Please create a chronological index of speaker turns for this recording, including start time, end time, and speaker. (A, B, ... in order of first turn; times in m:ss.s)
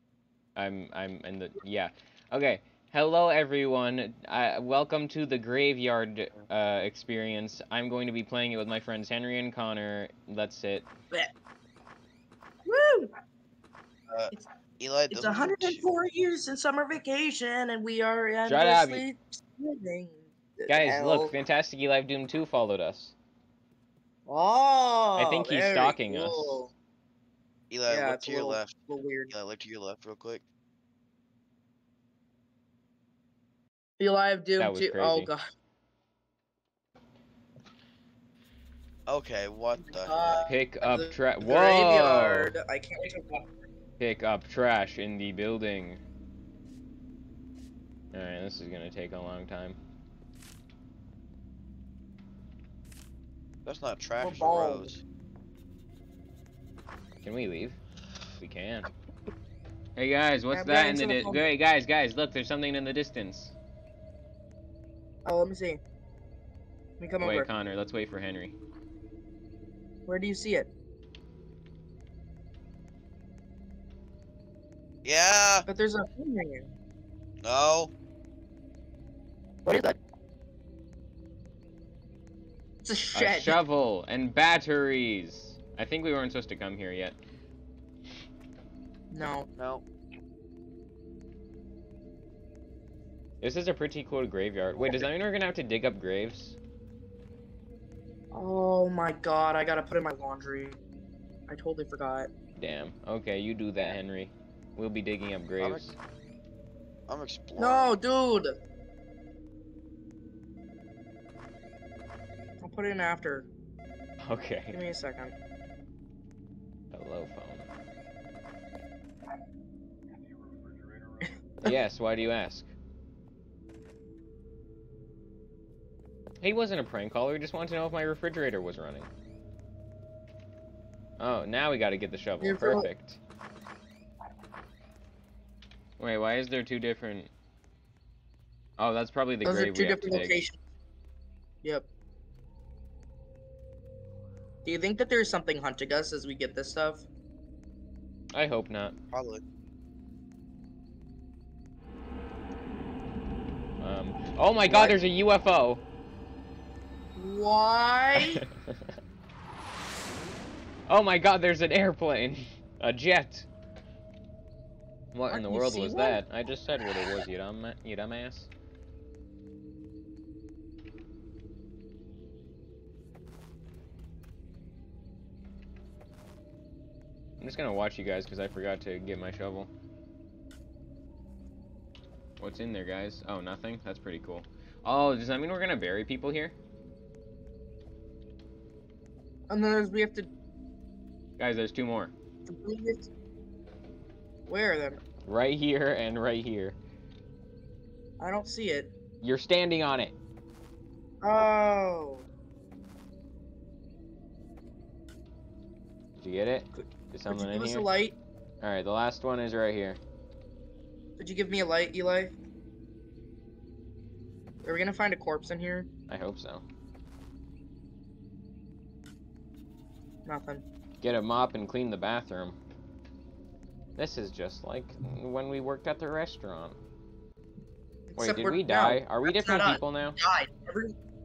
0:00.6-0:10.9 A
0:12.6-0:13.1 B
0:14.1-0:15.9 C
0:15.1-0:21.3 B
0:18.5-0:19.0 A
0:20.7-0:23.1 A
0:24.3-0:26.7 B
0:25.2-0:26.6 A
0:27.7-0:28.8 C
0:27.9-0:29.3 B
0:29.3-0:30.4 C
0:34.0-0:35.4 B
0:34.6-0:35.3 A
0:39.1-0:40.5 C
0:39.8-0:43.5 B
0:40.5-0:42.5 A
0:44.0-0:46.0 A
0:48.1-0:49.8 A
0:53.6-0:55.0 C
0:54.2-0:54.9 B
0:57.2-0:57.8 A
0:58.4-0:58.9 A
1:00.0-1:03.5 A
1:00.5-1:01.4 B
1:05.2-1:05.8 B
1:07.0-1:07.5 B
1:07.2-1:08.5 A
1:10.1-1:10.7 B
1:15.0-1:15.7 C
1:15.7-1:16.7 B
1:17.4-1:17.9 C
1:19.7-1:19.9 B
1:22.8-1:23.6 B
1:23.2-1:27.2 A
1:29.1-1:29.5 B
1:29.6-1:29.8 C
1:33.4-1:36.6 A
1:38.3-1:40.8 B
1:41.5-1:42.3 B
1:42.6-1:46.0 A
1:47.1-1:48.0 C
1:47.6-1:48.6 B
1:52.6-1:53.5 B
1:54.2-1:54.8 A
1:54.7-1:55.3 B
1:56.9-1:57.7 A
2:01.6-2:02.7 A
2:06.4-2:09.1 A
2:11.2-2:13.2 A
2:12.4-2:12.9 B
2:16.0-2:17.3 A
2:18.8-2:20.4 A
2:19.4-2:20.6 B
2:24.6-2:27.1 B
2:28.3-2:29.0 A
2:29.1-2:29.4 C
2:33.8-2:35.8 A
2:34.7-2:35.0 B
2:37.2-2:38.4 B
2:40.9-2:43.5 A
2:45.1-2:48.5 A
2:45.3-2:46.2 B
2:57.4-2:59.7 A
3:02.4-3:06.5 A
3:09.5-3:10.3 B
3:11.4-3:12.1 A
3:12.5-3:13.1 B
3:14.5-3:15.0 B
3:15.2-3:16.8 A
3:18.2-3:18.9 B
3:19.2-3:20.2 A
3:21.2-3:22.2 B
3:26.2-3:27.9 A
3:26.7-3:28.2 B
3:28.6-3:30.0 A
3:31.2-3:32.3 B
3:34.6-3:35.9 B
3:36.1-3:36.6 A
3:40.3-3:40.6 B
3:41.0-3:42.6 A
3:44.0-3:46.8 A
3:48.1-3:51.0 B
3:48.2-3:50.2 A